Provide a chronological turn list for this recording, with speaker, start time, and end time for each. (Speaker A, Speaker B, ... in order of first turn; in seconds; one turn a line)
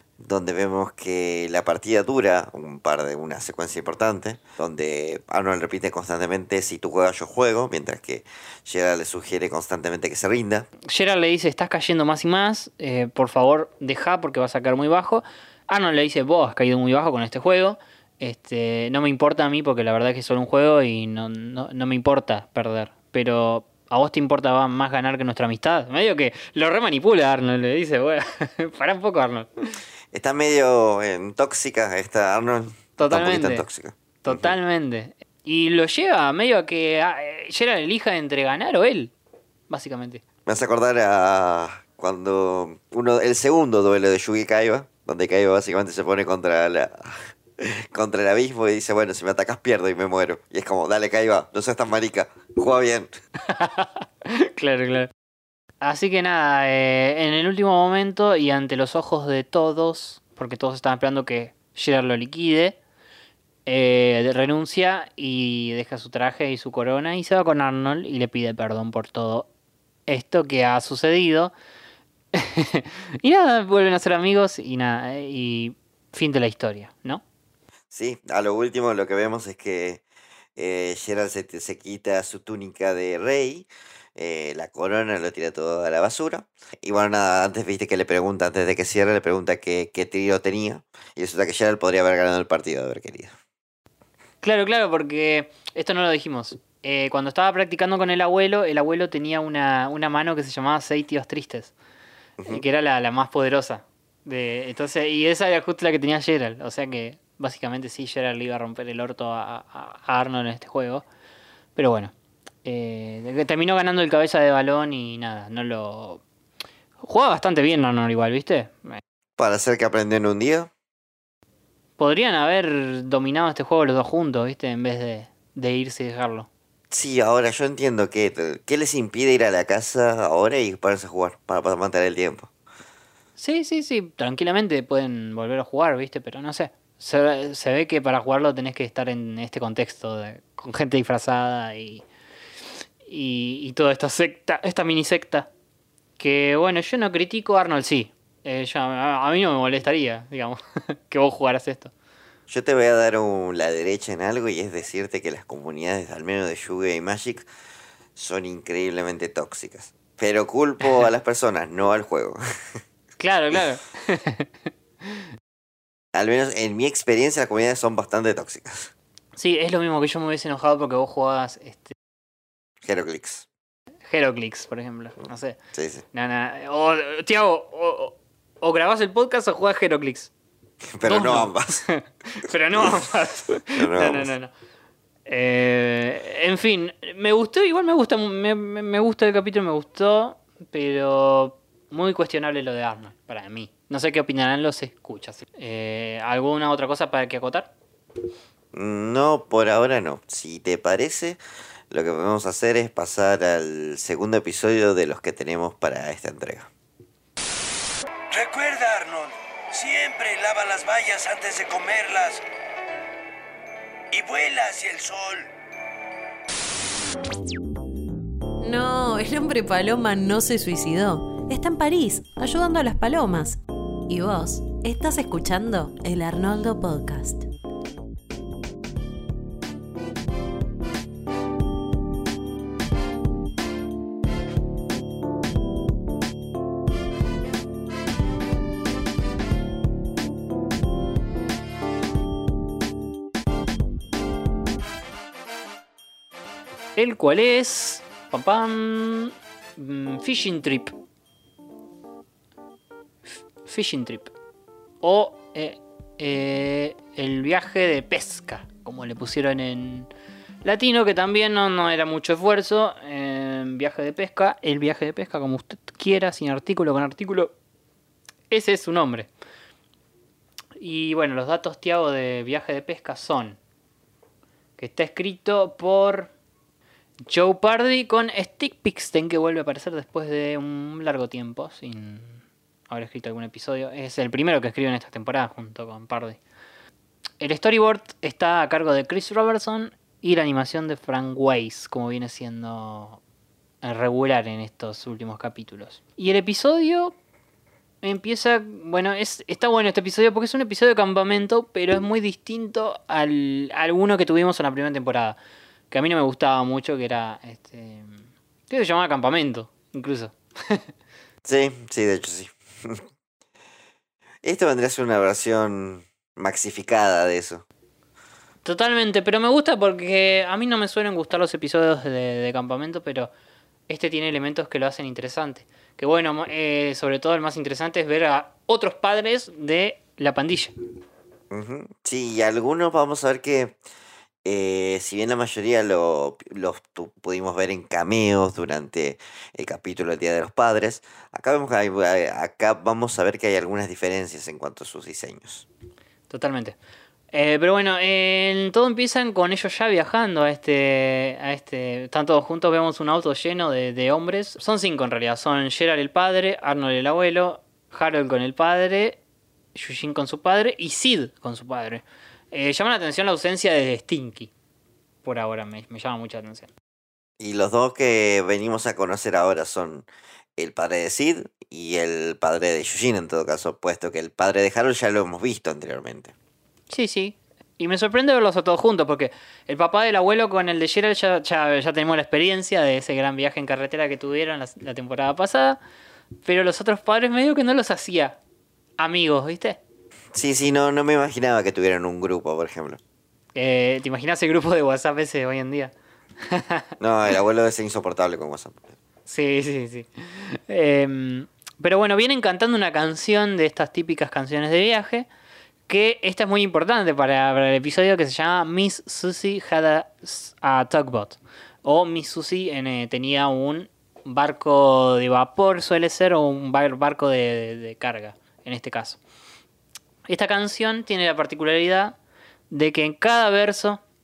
Speaker A: 0.2-10.7
Speaker B: 10.9-29.5
Speaker A: 30.1-34.6
Speaker B: 33.0-33.6
Speaker B: 34.2-39.1
Speaker B: 39.7-40.2
Speaker A: 40.5-53.1
Speaker B: 53.5-55.1
Speaker B: 55.8-62.8
Speaker B: 63.6-69.5
Speaker B: 70.1-71.5
Speaker B: 72.3-77.2
Speaker A: 77.9-80.0
Speaker A: 80.5-93.3
Speaker B: 94.4-101.7
Speaker B: 102.5-111.0
Speaker B: 111.8-112.1
Speaker B: 112.6-116.2
Speaker B: 117.0-119.0
Speaker A: 119.4-120.7
Speaker B: 122.0-126.5
Speaker A: 126.9-132.5
Speaker B: 133.4-142.0
Speaker B: 143.1-145.5
Speaker B: 146.2-151.9
Speaker A: 152.5-157.5
Speaker A: 158.2-162.4
Speaker B: 163.2-164.5
Speaker A: 166.1-168.9
Speaker B: 169.3-171.9
Speaker A: 172.8-173.5
Speaker B: 174.1-175.6
Speaker A: 175.7-176.0
Speaker B: 176.1-180.3
Speaker A: 180.8-181.8
Speaker B: 181.0-184.5
Speaker A: 182.8-183.0
Speaker A: 183.7-184.3
Speaker B: 185.3-197.7
Speaker A: 198.7-206.7
Speaker C: 208.3-212.4
Speaker C: 214.1-215.4
Speaker D: 218.6-227.4
Speaker B: 246.9-250.9
Speaker B: 253.3-254.3
Speaker B: 255.0-260.1
Speaker B: 260.6-267.5
Speaker B: 268.5-269.3
Speaker B: 270.8-273.6
Speaker B: 274.8-276.3
Speaker B: 277.3-286.4
Speaker B: 287.4-293.2
Speaker B: 293.8-297.1
Speaker B: 298.0-305.4
Speaker B: 305.9-310.8
Speaker A: 311.4-313.0
Speaker A: 314.4-317.6
Speaker B: 318.6-323.3
Speaker B: 323.9-330.7
Speaker A: 331.5-333.8
Speaker A: 334.4-345.6
Speaker B: 346.3-346.8
Speaker B: 347.3-359.2
Speaker B: 359.7-364.5
Speaker B: 365.2-366.7
Speaker A: 367.4-370.1
Speaker A: 370.6-376.3
Speaker B: 376.9-385.8
Speaker B: 386.4-388.4
Speaker B: 389.0-389.8
Speaker A: 390.3-393.0
Speaker B: 393.5-396.9
Speaker A: 397.0-398.9
Speaker B: 399.3-405.3
Speaker B: 405.9-419.2
Speaker B: 420.3-422.1
Speaker B: 422.7-424.0